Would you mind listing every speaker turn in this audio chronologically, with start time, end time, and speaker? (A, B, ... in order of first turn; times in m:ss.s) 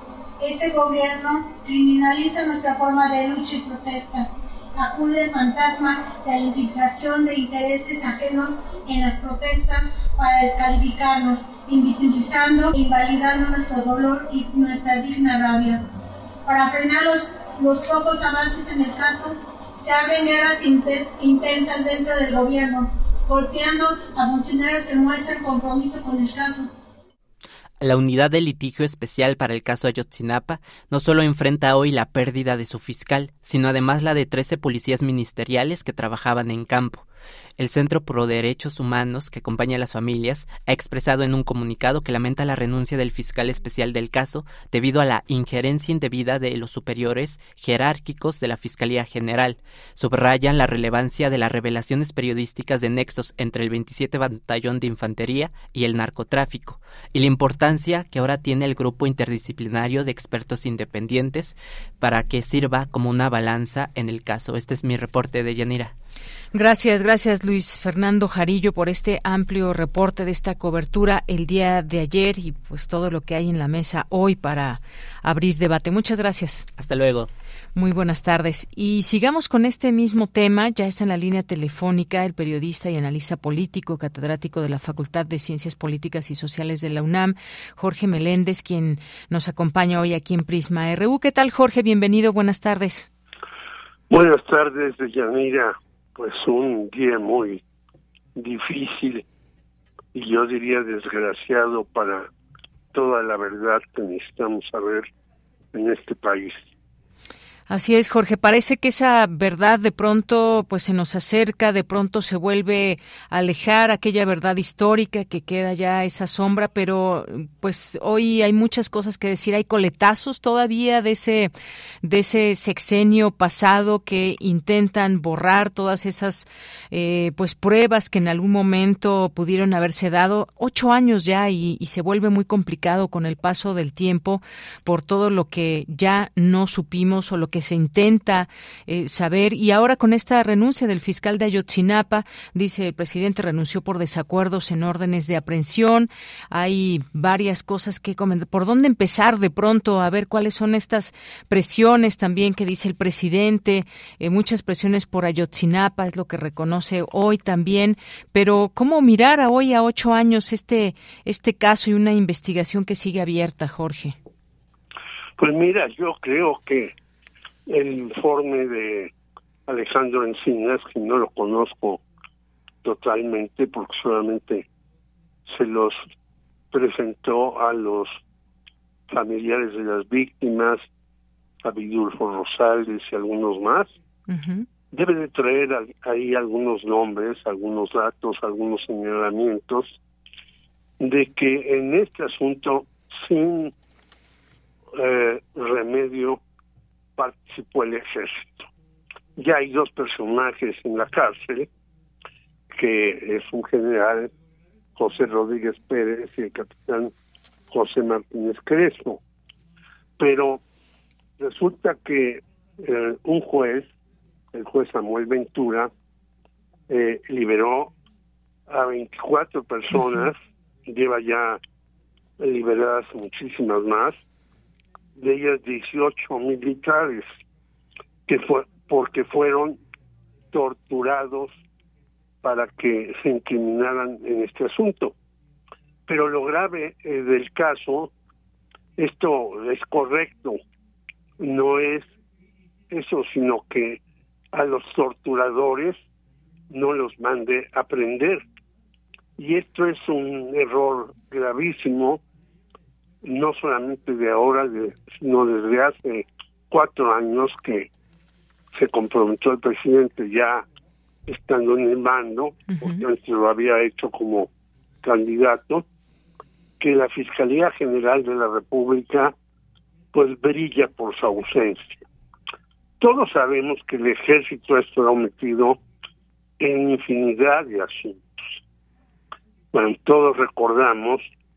0:00.4-0:15.8 A
0:16.4-0:26.7 A
0:27.8-0:37.0 B
0:37.6-1:05.9 B
1:06.5-1:16.6 C
1:16.8-1:17.3 B
1:17.7-1:33.1 C
1:34.1-1:37.6 D
1:38.4-1:39.2 D
1:40.1-1:42.3 D
1:42.9-1:45.1 D
1:45.7-1:46.6 D
1:47.7-2:01.5 C
2:02.0-2:44.2 C
2:45.4-2:46.9 D
2:47.7-2:49.1 D
2:49.7-2:52.0 D
2:52.8-2:54.6 D
2:55.4-2:56.0 D
2:56.7-2:58.2 D
2:59.1-3:00.8 D
3:01.6-3:03.9 D
3:04.3-3:04.6 C
3:04.9-3:10.0 D
3:11.0-3:13.7 D
3:15.0-3:16.4 D
3:17.2-3:18.6 D
3:19.4-3:21.7 D
3:22.7-3:24.3 D
3:25.0-3:27.1 D
3:27.7-3:29.2 D
3:30.2-3:30.6 D
3:31.4-3:33.9 D
3:34.5-3:35.9 D
3:36.9-3:37.9 D
3:38.7-3:40.4 D
3:40.9-3:41.6 D
3:42.4-3:44.2 D
3:45.2-3:47.2 D
3:48.3-3:49.8 D
3:50.5-3:51.6 D
3:52.4-3:55.1 D
3:56.1-3:58.1 D
3:59.0-4:00.6 D
4:01.4-4:02.1 D
4:02.9-4:04.0 D
4:04.5-4:06.0 D
4:06.7-4:08.4 D
4:09.4-4:12.2 D
4:13.2-4:17.9 D
4:18.7-4:20.6 D
4:21.3-4:24.5 D
4:22.7-4:23.0 C
4:25.0-4:25.8 D
4:26.8-4:29.3 D
4:30.1-4:32.0 D
4:33.0-4:35.8 D
4:36.6-4:38.2 D
4:39.7-4:41.2 D